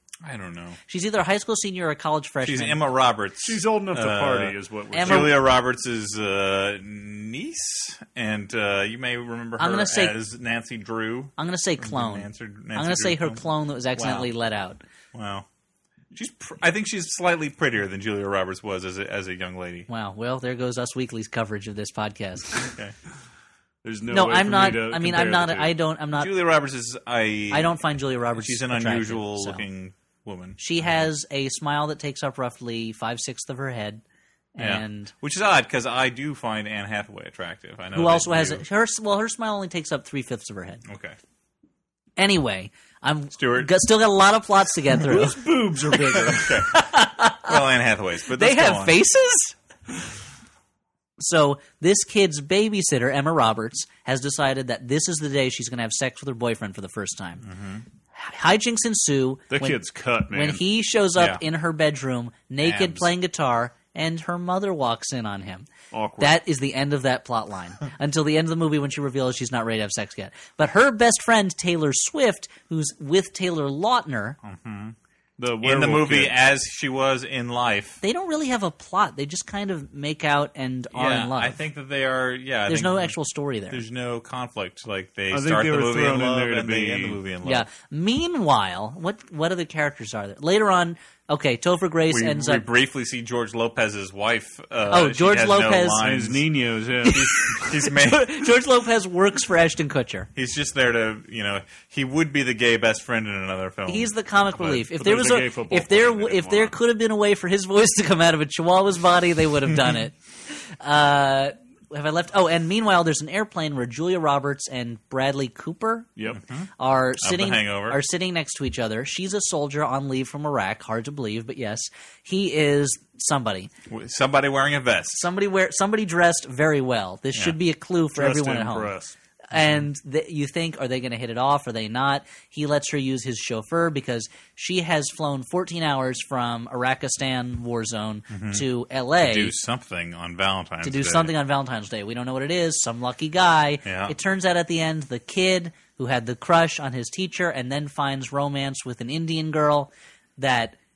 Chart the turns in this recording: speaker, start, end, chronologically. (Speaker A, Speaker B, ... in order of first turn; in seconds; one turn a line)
Speaker A: 0.2-0.8
Speaker B: 0.9-2.8
Speaker A: 2.4-13.4
Speaker C: 3.4-5.4
Speaker B: 4.9-5.3
Speaker B: 9.6-10.1
Speaker B: 11.4-14.8
Speaker A: 14.0-14.3
Speaker A: 15.1-15.5
Speaker A: 16.1-19.9
Speaker B: 19.9-22.7
Speaker A: 22.7-22.9
Speaker C: 23.8-25.7
Speaker B: 24.1-26.3
Speaker A: 26.1-27.8
Speaker B: 27.5-29.6
Speaker A: 28.4-30.6
Speaker B: 30.6-34.0
Speaker B: 34.5-35.1
Speaker A: 34.6-38.6
Speaker B: 38.0-40.8
Speaker A: 40.9-41.2
Speaker B: 42.2-47.6
Speaker A: 43.4-43.7
Speaker C: 45.0-46.6
Speaker A: 46.1-46.7
Speaker A: 47.4-49.0
Speaker B: 48.3-49.5
Speaker B: 51.2-57.5
Speaker A: 57.4-57.9
Speaker B: 58.1-59.8
Speaker C: 59.5-60.6
Speaker B: 60.3-65.7
Speaker A: 61.2-61.4
Speaker A: 62.6-63.1
Speaker C: 65.9-66.4
Speaker B: 66.2-74.4
Speaker A: 74.4-75.0
Speaker C: 75.4-76.4
Speaker A: 75.6-78.0
Speaker B: 78.0-81.6
Speaker A: 80.9-83.2
Speaker B: 82.7-83.8
Speaker A: 83.7-87.7
Speaker C: 85.3-87.2
Speaker B: 87.4-92.7
Speaker A: 92.1-96.5
Speaker B: 94.9-96.0
Speaker C: 96.0-97.7
Speaker A: 97.0-98.4
Speaker B: 97.1-100.3
Speaker A: 100.4-104.6
Speaker B: 103.9-116.1
Speaker C: 104.6-106.8
Speaker A: 116.3-116.7
Speaker B: 116.8-123.7
Speaker A: 117.2-118.0
Speaker A: 123.9-125.2
Speaker B: 125.1-128.9
Speaker C: 128.2-129.2
Speaker B: 129.5-139.5
Speaker A: 129.6-129.8
Speaker A: 138.3-138.7
Speaker A: 139.2-141.3
Speaker B: 140.8-150.8
Speaker A: 143.8-144.1